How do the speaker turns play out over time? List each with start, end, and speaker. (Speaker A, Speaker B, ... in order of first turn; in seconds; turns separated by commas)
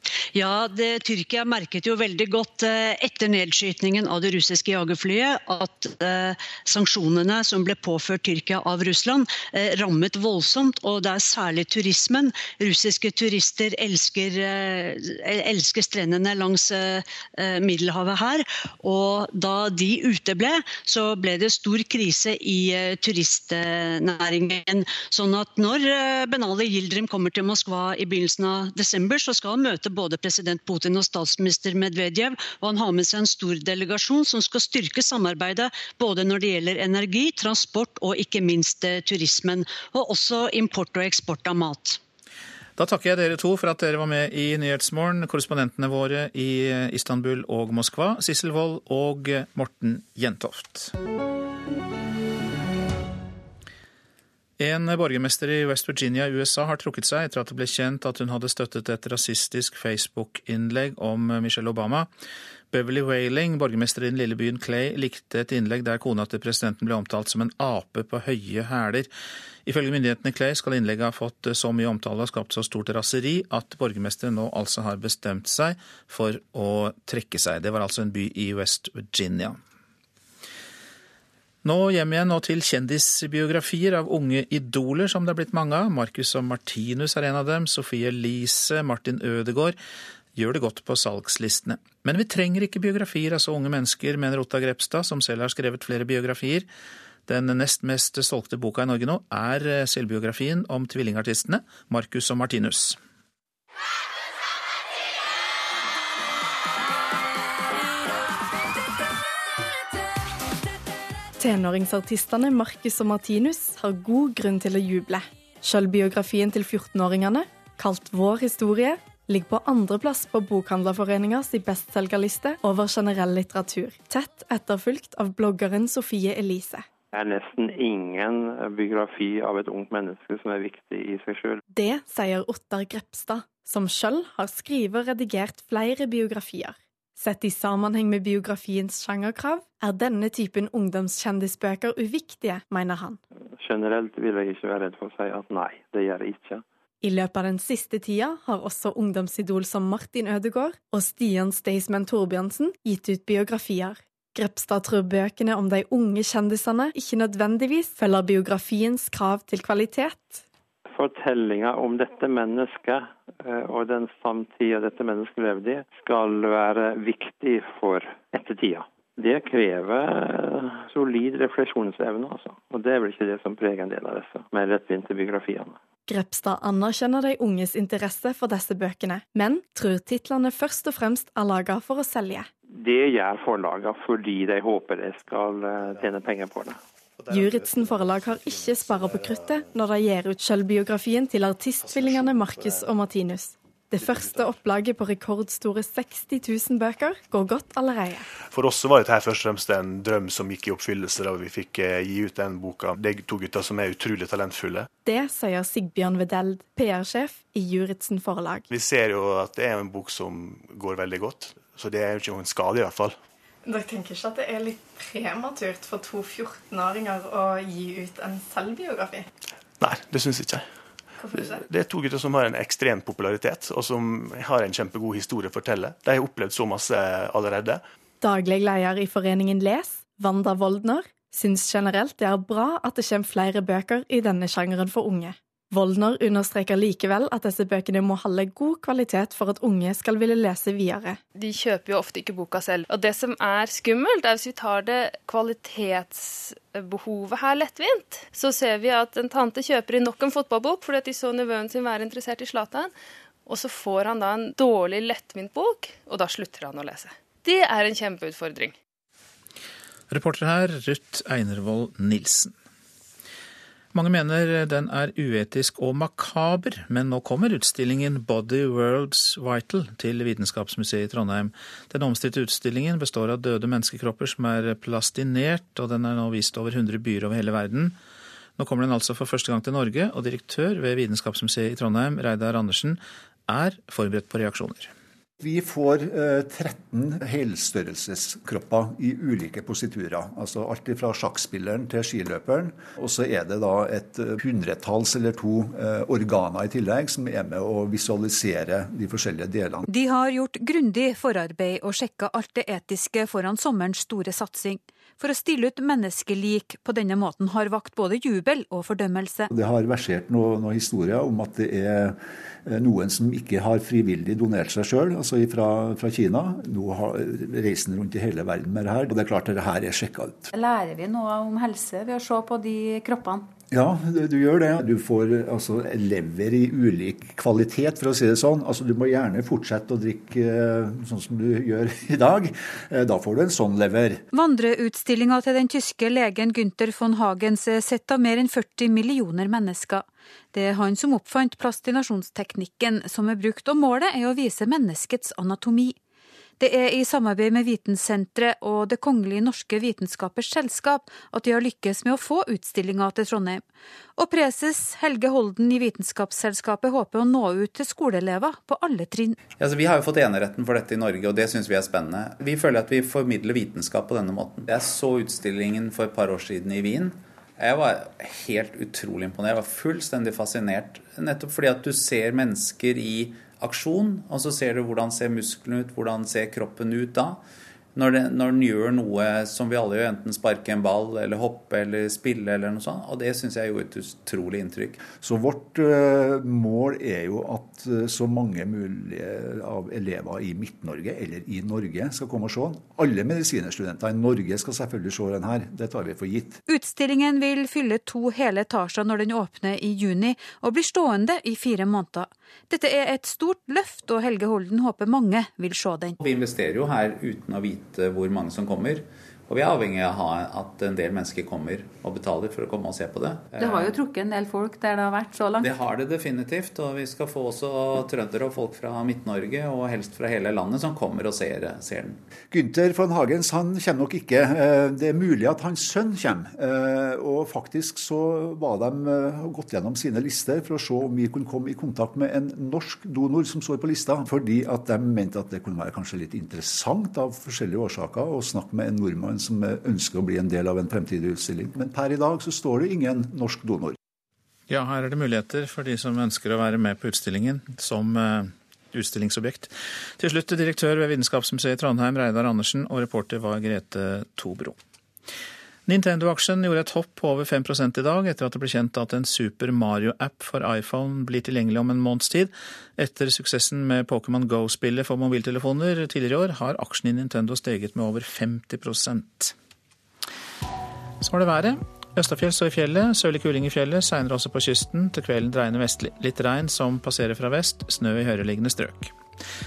Speaker A: 0.3-42.0, Speaker B: 42.8-50.9, Speaker B: 54.6-62.1, Speaker B: 62.7-69.1, Speaker B: 69.6-79.6, Speaker B: 81.6-89.8, Speaker B: 90.3-96.7, Speaker B: 97.3-103.0, Speaker C: 111.4-126.8, Speaker D: 127.1-131.6, Speaker C: 131.7-143.2, Speaker D: 143.6-146.6, Speaker C: 147.0-160.4, Speaker D: 160.9-175.8, Speaker C: 176.1-182.5, Speaker D: 182.8-186.8, Speaker C: 187.3-198.2, Speaker E: 198.5-204.9, Speaker C: 205.1-208.6, Speaker E: 208.7-213.2, Speaker C: 213.6-219.2, Speaker E: 219.8-220.7, Speaker C: 221.2-221.6, Speaker E: 221.4-227.8, Speaker C: 228.2-241.2, Speaker F: 241.3-252.9, Speaker F: 253.5-258.8, Speaker B: 260.1-262.5, Speaker B: 263.9-278.0, Speaker B: 278.6-284.9, Speaker G: 285.4-299.9, Speaker H: 299.9-309.5, Speaker G: 309.5-320.5, Speaker H: 320.5-323.5, Speaker G: 323.7-334.2, Speaker H: 334.3-346.0, Speaker H: 346.6-353.6, Speaker H: 354.2-359.4, Speaker I: 359.6-377.4, Speaker I: 377.9-385.0, Speaker G: 385.0-396.6, Speaker H: 396.7-406.2, Speaker I: 406.2-414.0, Speaker H: 414.3-415.5, Speaker I: 415.6-422.2, Speaker G: 422.5-444.0, Speaker B: 444.7-454.8, Speaker B: 455.9-469.5, Speaker B: 471.2-479.1